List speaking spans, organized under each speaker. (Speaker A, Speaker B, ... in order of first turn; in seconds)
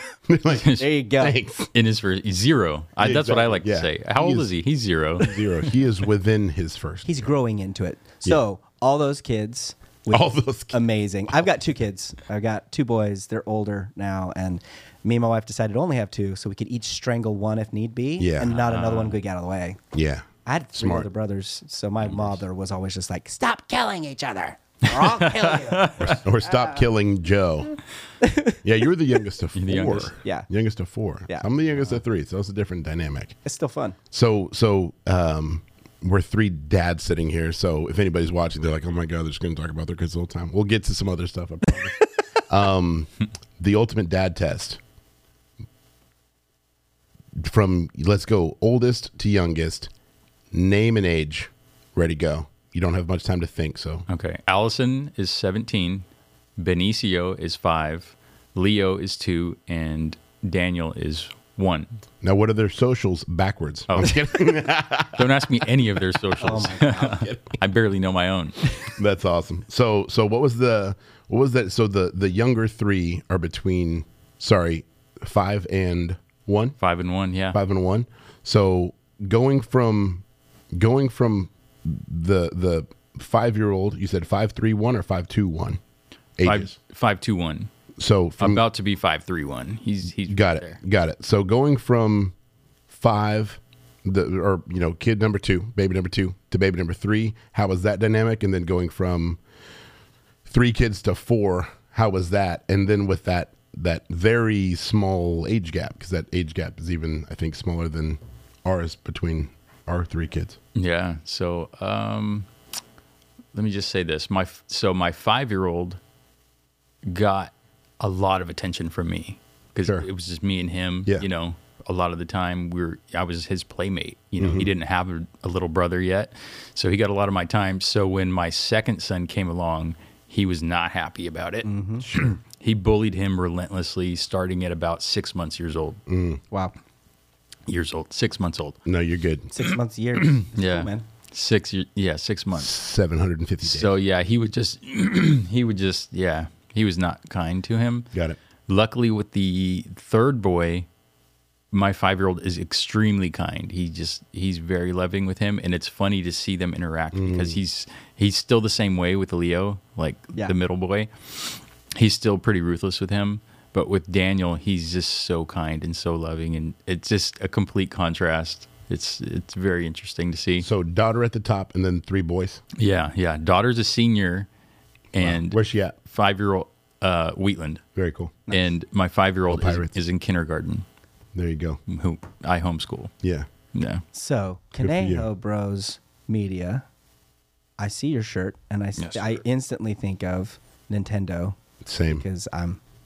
Speaker A: 0.3-1.7, 3.0-4.5, 5.2-7.2, 10.1-10.8, 18.2-18.6, 19.9-21.1, 26.0-27.8, 28.6-33.4, 34.1-44.8, 47.4-49.9, 50.5-54.0, 62.2-65.7, 66.3-67.5, 68.8-76.8, 77.5-85.8, 86.4-86.7, 88.0-88.6, 90.3-92.3, 92.9-99.4, 100.4-110.6, 124.4-124.7, 132.0-132.3, 136.1-136.4, 138.8-139.5, 142.5-143.9, 148.1-148.4, 157.1-157.6, 170.6-172.6, 175.2-175.9, 177.9-178.4, 179.5-180.0, 181.3-181.8, 183.2-183.5, 184.8-185.2, 191.8-192.2
Speaker B: 0.5-1.4, 7.0-19.8, 20.4-26.8, 28.2-28.6, 30.2-30.5, 33.4-34.0, 66.4-67.2, 131.6-132.2, 139.5-141.0, 184.1-186.8, 187.8-192.8
Speaker C: 0.6-0.9, 1.7-5.7, 18.5-19.2, 22.1-22.4, 24.9-26.2, 29.6-30.1, 54.1-56.0, 56.6-61.9, 63.9-64.5, 65.1-68.7, 76.8-77.6, 86.4-87.7, 88.4-90.8, 110.7-112.5, 113.5-116.0, 117.0-131.7, 132.2-136.0, 137.7-138.8, 140.2-142.7, 143.6-148.1, 148.7-150.9, 151.7-170.7, 172.7-174.5, 175.1-177.8, 178.5-180.8, 181.9-183.1, 183.7-184.0, 189.0-189.4